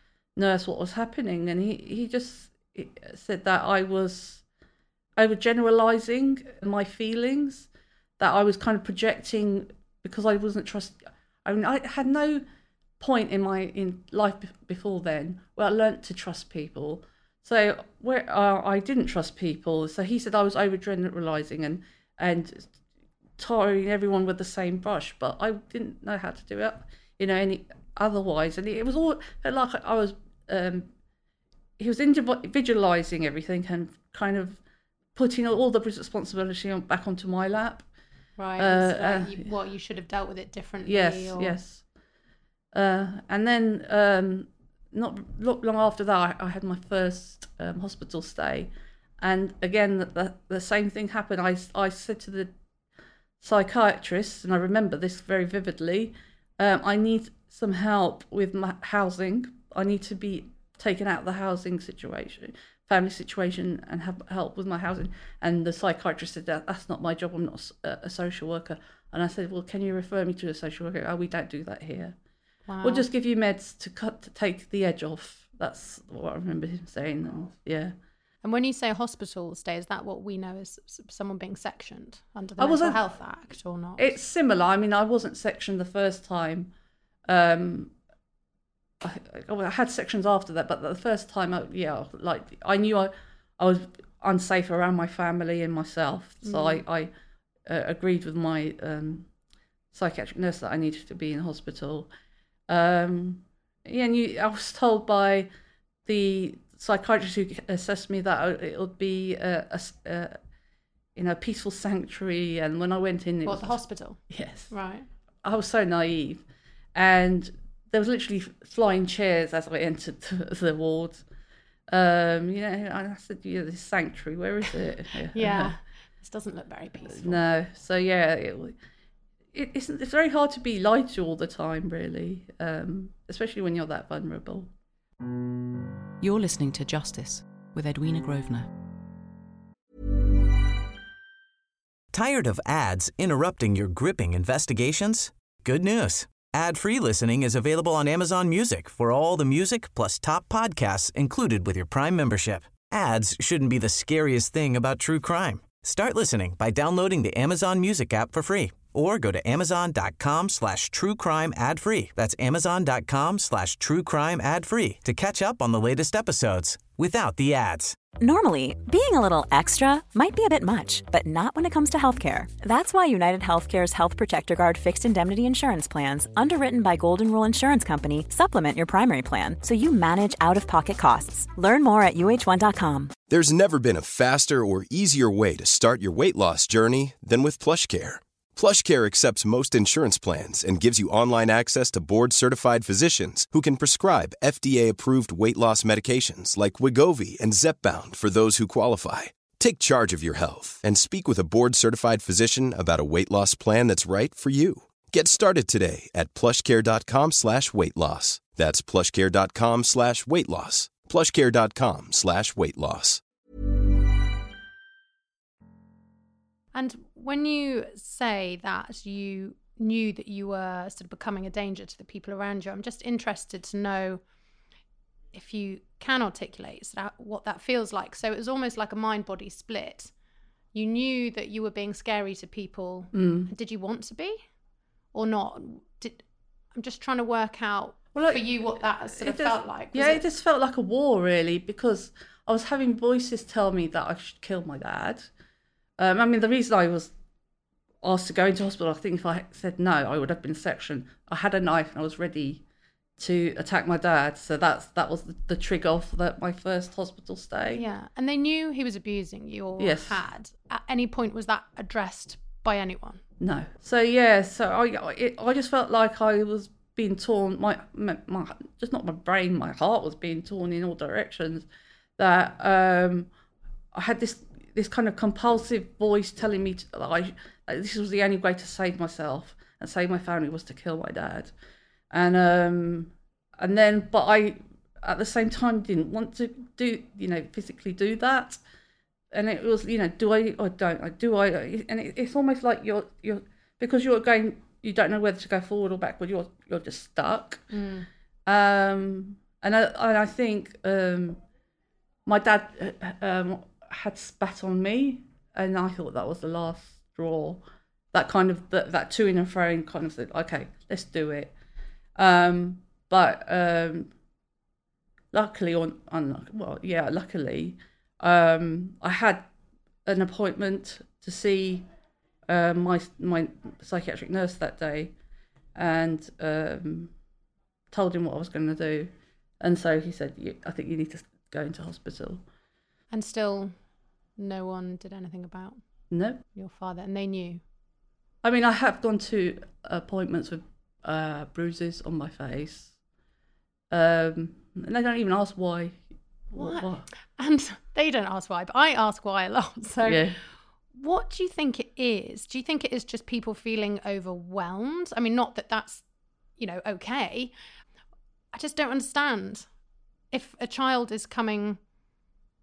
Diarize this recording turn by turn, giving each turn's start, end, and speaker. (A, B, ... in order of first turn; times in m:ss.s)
0:00.4-0:04.4 A
0:05.2-0:12.4 A
0:13.0-0:22.7 A
0:23.4-0:30.9 A
0:31.8-0:34.6 A
0:35.1-0:37.8 A
0:38.4-0:41.6 B
0:38.6-0:39.5 A
0:40.9-0:41.8 A
0:42.7-0:52.5 A
0:53.4-1:12.2 A
1:12.7-1:13.1 B
1:12.8-1:17.9 A
1:18.4-1:24.1 B
1:22.6-1:23.0 A
1:24.0-1:26.7 A
1:27.3-1:27.9 A
1:29.0-1:37.1 A
1:36.4-1:36.8 B
1:37.6-1:39.3 A
1:39.9-1:42.1 A
1:42.7-1:45.5 A
1:46.1-1:50.4 A
1:51.2-1:53.8 A
1:53.4-1:54.2 B
1:54.3-1:54.7 A
1:54.7-1:55.1 B
1:55.4-1:56.4 A
1:56.9-2:01.2 A
2:01.9-2:05.7 A
2:05.3-2:07.4 B
2:07.1-2:08.8 A
2:09.5-2:14.7 A
2:16.2-2:18.7 C
2:22.1-2:48.0 D
2:48.2-3:03.1 E
3:03.3-3:33.2 F
3:36.7-3:44.2 B
3:45.3-3:50.1 B
3:50.7-3:54.4 B
3:53.1-3:53.5 A
3:55.1-3:56.2 B
3:56.7-4:00.2 B
3:58.1-4:05.3 A
4:06.0-4:07.1 A
4:08.0-4:12.6 A
4:13.2-4:17.8 A
4:17.7-4:23.2 B
4:19.8-4:20.2 A
4:23.4-4:31.7 A
4:32.2-4:33.3 A
4:33.9-4:41.5 A
4:42.1-4:48.6 A
4:49.3-4:57.6 A
4:57.7-4:58.1 B
4:58.4-5:01.4 A
5:02.3-5:07.6 A
5:08.1-5:11.5 A
5:12.2-5:14.1 A
5:15.3-5:19.5 A
5:20.1-5:21.8 A
5:22.5-5:25.1 A
5:25.8-5:27.1 A
5:27.9-5:32.4 A
5:33.1-5:33.8 B
5:34.4-5:35.8 B
5:36.1-5:36.4 A
5:36.6-5:37.6 B
5:38.4-5:42.9 A
5:43.9-5:47.1 A
5:46.6-5:50.2 B
5:50.0-5:50.4 A
5:50.9-5:56.0 B
5:56.6-5:57.5 B
5:58.5-5:59.7 B
6:00.3-6:01.8 B